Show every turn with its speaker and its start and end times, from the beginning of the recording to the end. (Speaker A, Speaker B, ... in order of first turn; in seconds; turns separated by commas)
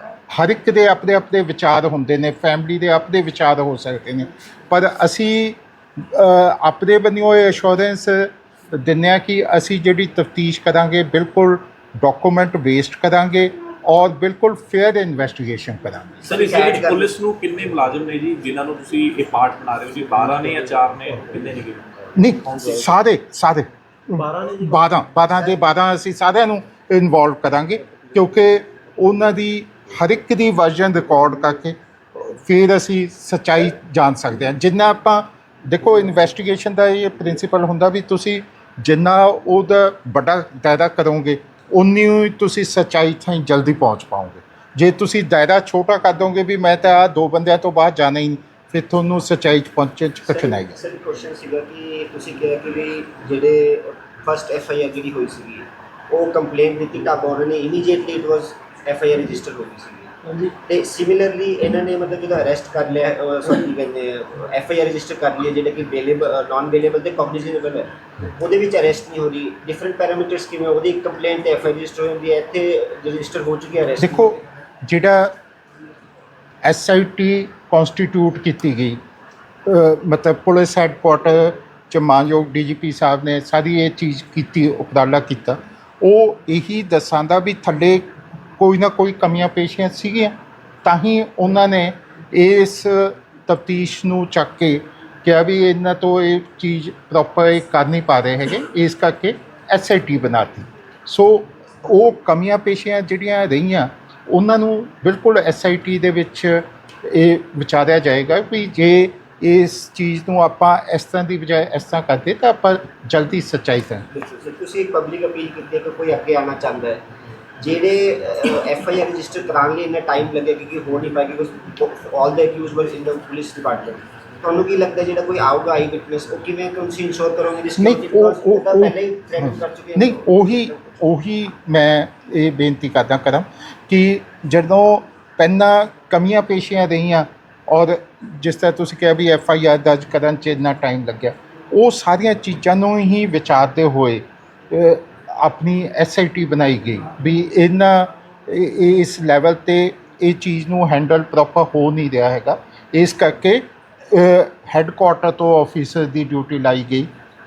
Speaker A: 0.3-16.1, Speaker B: 16.2-21.9, Speaker C: 16.2-17.1, Speaker A: 22.1-50.7, Speaker B: 22.4-22.9, Speaker C: 25.3-25.6, Speaker C: 50.2-60.1, Speaker C: 60.6-74.3, Speaker A: 74.0-75.3, Speaker A: 76.6-79.0, Speaker A: 79.7-114.1, Speaker C: 114.1-117.0, Speaker C: 117.6-130.7, Speaker A: 127.8-157.1